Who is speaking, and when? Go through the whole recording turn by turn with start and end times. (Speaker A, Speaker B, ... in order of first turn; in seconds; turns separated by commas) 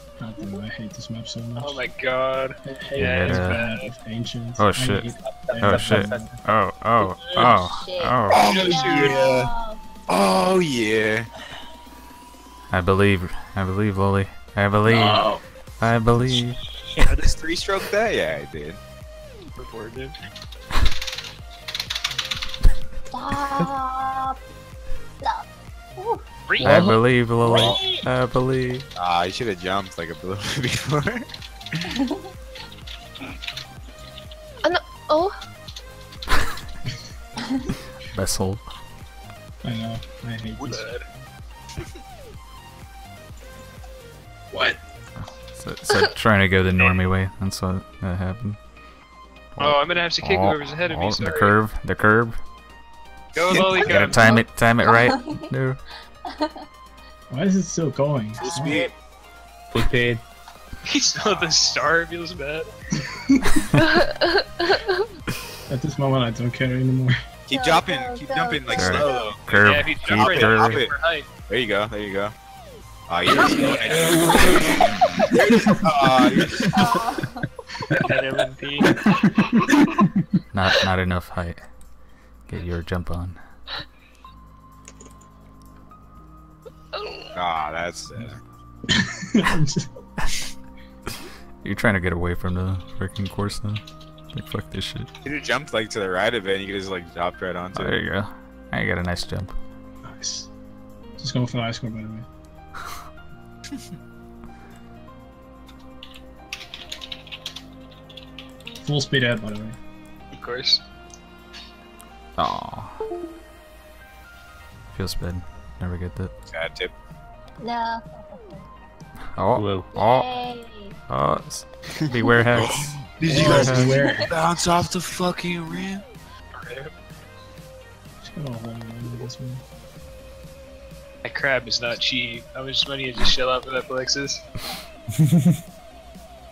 Speaker A: 0.2-1.8, Speaker B: 1.6-3.9, Speaker A: 2.6-6.3, Speaker C: 3.0-3.6, Speaker C: 4.6-8.5, Speaker D: 5.2-6.3, Speaker E: 7.4-9.8, Speaker F: 8.3-9.5, Speaker B: 8.4-9.2, Speaker F: 10.1-11.3, Speaker C: 12.7-16.6, Speaker A: 14.9-15.4, Speaker D: 16.2-17.1, Speaker F: 17.0-18.8, Speaker B: 19.6-20.2, Speaker E: 23.1-24.4, Speaker E: 25.2-26.2, Speaker B: 26.5-26.9, Speaker D: 26.6-28.1, Speaker C: 26.6-28.9, Speaker F: 27.4-27.8, Speaker F: 28.9-31.3, Speaker G: 34.6-35.3, Speaker C: 38.1-38.6, Speaker A: 39.6-40.9, Speaker B: 40.6-41.0, Speaker A: 44.5-44.8, Speaker C: 45.2-48.6, Speaker B: 46.8-47.0, Speaker C: 49.6-52.4, Speaker B: 49.6-51.6, Speaker B: 53.3-54.3, Speaker C: 53.7-55.8, Speaker E: 54.0-55.5, Speaker E: 56.3-56.5, Speaker A: 57.3-58.9, Speaker F: 58.4-58.9, Speaker E: 58.4-58.9, Speaker D: 59.7-60.2, Speaker B: 60.8-62.7, Speaker F: 61.2-61.8, Speaker A: 63.0-63.4, Speaker G: 63.7-65.1, Speaker A: 65.7-67.1, Speaker F: 67.5-69.4, Speaker E: 67.5-69.4, Speaker C: 68.7-70.8, Speaker B: 69.5-71.3, Speaker F: 70.0-70.9, Speaker F: 71.5-72.3, Speaker F: 73.1-77.0, Speaker B: 73.3-74.2, Speaker D: 74.0-74.5, Speaker E: 76.7-77.5, Speaker B: 78.0-79.1, Speaker C: 80.5-81.7, Speaker C: 82.5-83.4, Speaker G: 86.9-87.3, Speaker F: 87.3-88.4, Speaker A: 88.9-90.0, Speaker C: 91.6-95.1, Speaker F: 95.2-98.0, Speaker C: 97.7-99.5, Speaker A: 100.0-100.5, Speaker A: 101.2-102.3, Speaker A: 108.8-109.8, Speaker B: 110.3-110.8, Speaker C: 112.4-113.0, Speaker C: 114.9-116.3, Speaker F: 116.5-116.9, Speaker E: 117.6-118.6, Speaker C: 119.3-120.3, Speaker D: 119.5-119.9, Speaker E: 119.9-120.9, Speaker C: 121.1-123.9, Speaker F: 122.5-126.0, Speaker A: 123.2-124.3, Speaker E: 123.9-124.2, Speaker B: 126.5-126.9, Speaker A: 128.2-129.6, Speaker B: 131.2-134.4, Speaker D: 135.1-135.6